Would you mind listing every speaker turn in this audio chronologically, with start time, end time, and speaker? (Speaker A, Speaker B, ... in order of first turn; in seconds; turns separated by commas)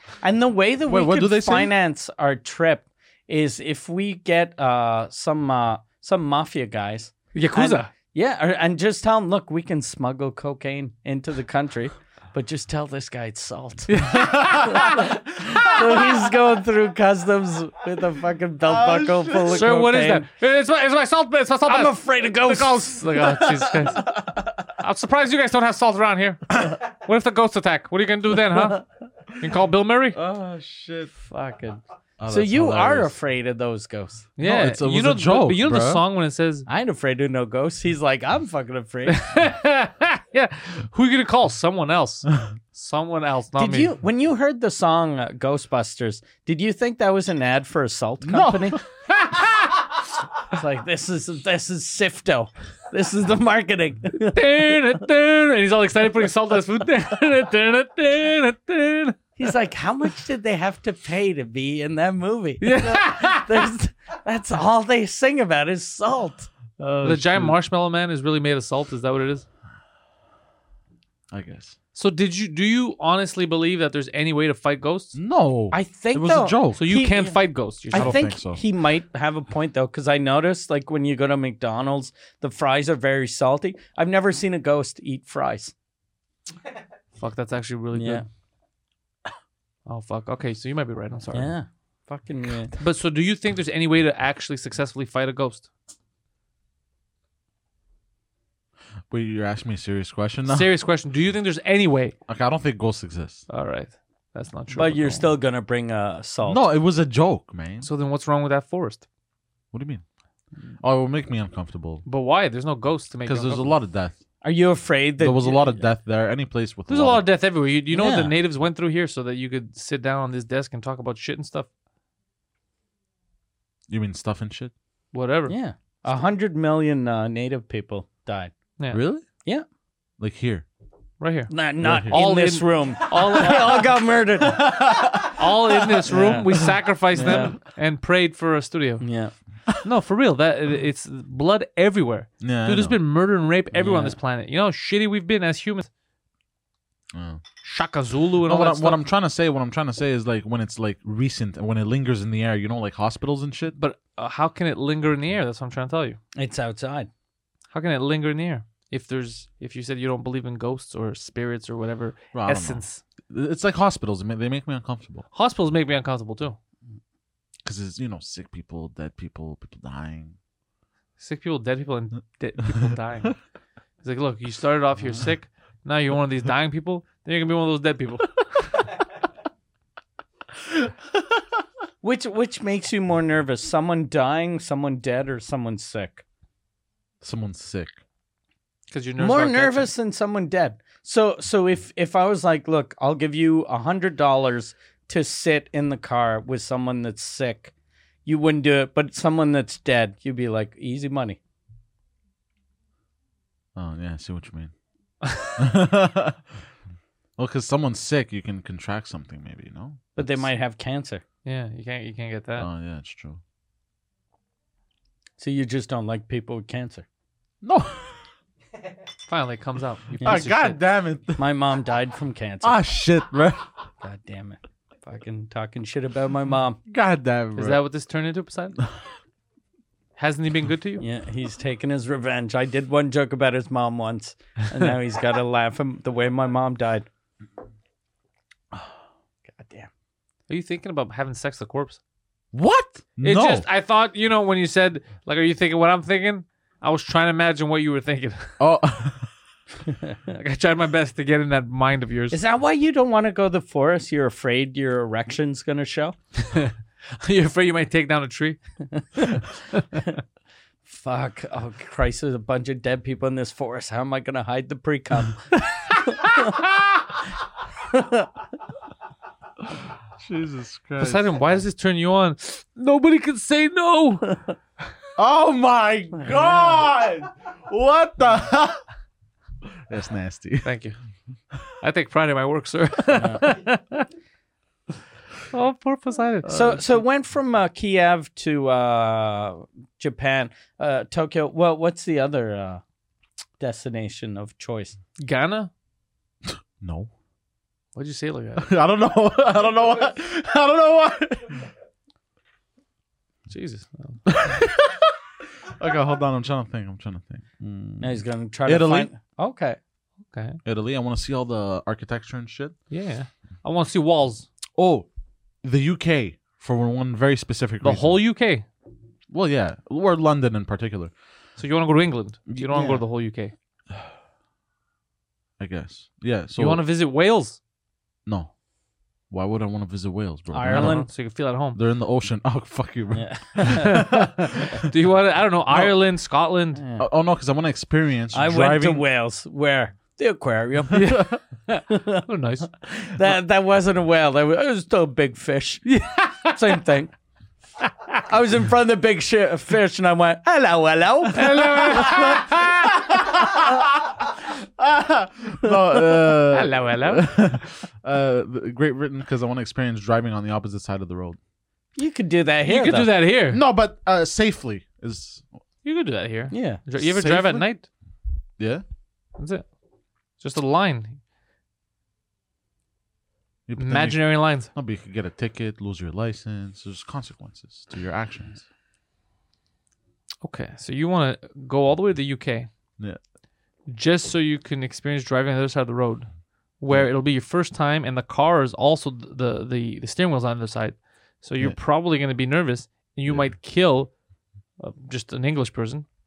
Speaker A: 0.2-20.3, Speaker B: 0.9-1.7, Speaker C: 7.3-7.9, Speaker C: 13.9-15.1, Speaker B: 14.1-14.8, Speaker B: 15.4-15.9, Speaker B: 18.7-19.6, Speaker C: 19.5-28.9, Speaker A: 21.6-23.4, Speaker C: 29.4-30.2, Speaker B: 30.1-31.1, Speaker A: 31.2-34.3, Speaker B: 32.2-33.2, Speaker C: 34.4-36.7, Speaker B: 34.4-36.0, Speaker A: 36.7-39.4, Speaker C: 39.1-43.9, Speaker A: 43.6-48.8, Speaker B: 48.2-48.8, Speaker C: 49.1-49.7, Speaker A: 50.5-54.8, Speaker C: 54.1-59.4, Speaker A: 59.4-66.5, Speaker C: 62.6-63.7, Speaker B: 66.8-67.6, Speaker C: 67.0-69.4, Speaker B: 71.3-71.8, Speaker C: 72.0-75.2, Speaker B: 75.2-76.9, Speaker A: 75.7-77.4, Speaker C: 76.8-78.2, Speaker A: 77.9-85.7, Speaker B: 77.9-78.6, Speaker C: 87.2-88.2, Speaker A: 87.9-88.3, Speaker C: 89.9-91.5, Speaker A: 91.3-92.7, Speaker C: 92.8-95.7, Speaker B: 99.1-100.7, Speaker C: 100.5-102.2, Speaker B: 102.3-103.4, Speaker C: 103.5-105.3, Speaker A: 104.7-106.6, Speaker B: 106.4-107.9, Speaker C: 107.8-109.0, Speaker B: 109.7-110.0, Speaker B: 110.8-112.0, Speaker C: 112.1-113.7, Speaker B: 113.2-114.2, Speaker A: 114.4-115.8, Speaker B: 115.2-117.3, Speaker C: 116.9-121.7, Speaker A: 117.9-118.3, Speaker B: 123.9-124.7, Speaker C: 125.1-125.5, Speaker A: 125.5-128.6, Speaker B: 128.9-129.2, Speaker B: 130.2-130.7, Speaker C: 131.2-133.9, Speaker A: 131.5-134.8, Speaker B: 131.8-132.2, Speaker B: 134.5-136.0, Speaker C: 135.1-139.0, Speaker A: 136.1-137.6, Speaker A: 139.0-139.3, Speaker C: 139.8-145.9, Speaker B: 142.4-143.0, Speaker A: 143.7-144.2, Speaker B: 147.1-147.4, Speaker C: 147.6-149.0, Speaker B: 148.4-153.8, Speaker C: 153.8-156.2, Speaker A: 156.4-157.1, Speaker C: 157.7-163.0, Speaker B: 162.3-165.3, Speaker C: 165.3-166.6, Speaker B: 167.6-170.4, Speaker C: 171.2-173.4, Speaker C: 174.0-179.0, Speaker A: 182.0-186.2, Speaker B: 187.2-188.0, Speaker C: 188.9-189.9, Speaker A: 189.2-197.7, Speaker A: 198.2-201.4, Speaker B: 203.8-204.7, Speaker C: 205.2-205.6, Speaker B: 205.6-206.4, Speaker B: 207.4-210.4, Speaker A: 210.2-211.2, Speaker C: 211.4-212.7, Speaker B: 212.6-213.4, Speaker A: 215.4-217.1, Speaker B: 217.6-218.2, Speaker C: 219.3-220.8, Speaker B: 220.2-221.4, Speaker A: 221.4-222.8, Speaker B: 222.6-223.6, Speaker A: 224.0-226.8, Speaker B: 226.9-227.8, Speaker C: 227.6-228.8, Speaker C: 230.2-231.0, Speaker A: 231.0-237.1, Speaker A: 239.5-239.9, Speaker C: 240.5-242.0, Speaker B: 242.5-243.7, Speaker C: 243.2-248.5, Speaker B: 248.6-249.3, Speaker C: 250.3-252.4, Speaker A: 252.3-256.2, Speaker C: 256.4-258.6, Speaker A: 259.0-259.4, Speaker A: 260.9-266.6, Speaker C: 265.7-266.2, Speaker A: 267.9-268.3, Speaker B: 270.2-271.3, Speaker C: 271.0-274.4, Speaker B: 275.2-278.8, Speaker B: 279.9-280.7, Speaker C: 280.6-281.0, Speaker C: 281.8-284.1, Speaker A: 283.1-283.4, Speaker C: 285.5-286.7, Speaker A: 286.5-292.8, Speaker A: 293.6-294.9, Speaker C: 295.2-295.7, Speaker B: 296.5-297.1, Speaker C: 298.0-298.7, Speaker B: 298.6-301.6, Speaker C: 303.5-304.2, Speaker B: 304.3-305.1, Speaker B: 305.8-309.1, Speaker A: 308.0-309.8, Speaker C: 310.3-310.6, Speaker B: 310.6-312.8, Speaker C: 312.9-314.5, Speaker B: 314.8-315.1, Speaker B: 315.6-318.2, Speaker C: 317.8-318.7, Speaker B: 319.3-321.1, Speaker C: 321.6-323.5, Speaker A: 322.7-323.0, Speaker B: 325.6-326.8, Speaker C: 326.6-327.6, Speaker B: 328.3-328.5, Speaker B: 329.3-331.1, Speaker A: 330.5-331.1, Speaker C: 330.7-331.8, Speaker B: 331.7-334.9, Speaker A: 333.1-334.0, Speaker C: 333.7-336.8, Speaker A: 336.8-337.0, Speaker B: 337.0-339.1, Speaker A: 338.3-341.3, Speaker C: 340.9-342.7, Speaker A: 341.9-342.2, Speaker A: 342.8-345.8, Speaker C: 345.9-346.8, Speaker A: 346.5-347.1, Speaker A: 348.3-352.5, Speaker C: 351.4-353.1, Speaker B: 352.9-361.4, Speaker C: 356.5-357.3, Speaker A: 362.0-363.1, Speaker C: 362.7-363.6, Speaker B: 363.5-365.6, Speaker C: 365.8-367.9, Speaker A: 366.5-367.6, Speaker B: 367.4-367.6, Speaker B: 368.6-368.8, Speaker C: 369.4-369.6, Speaker C: 370.4-371.2, Speaker B: 373.7-378.6, Speaker C: 373.8-374.7, Speaker C: 380.4-382.7, Speaker C: 383.9-386.3, Speaker C: 386.8-394.1, Speaker C: 394.8-396.1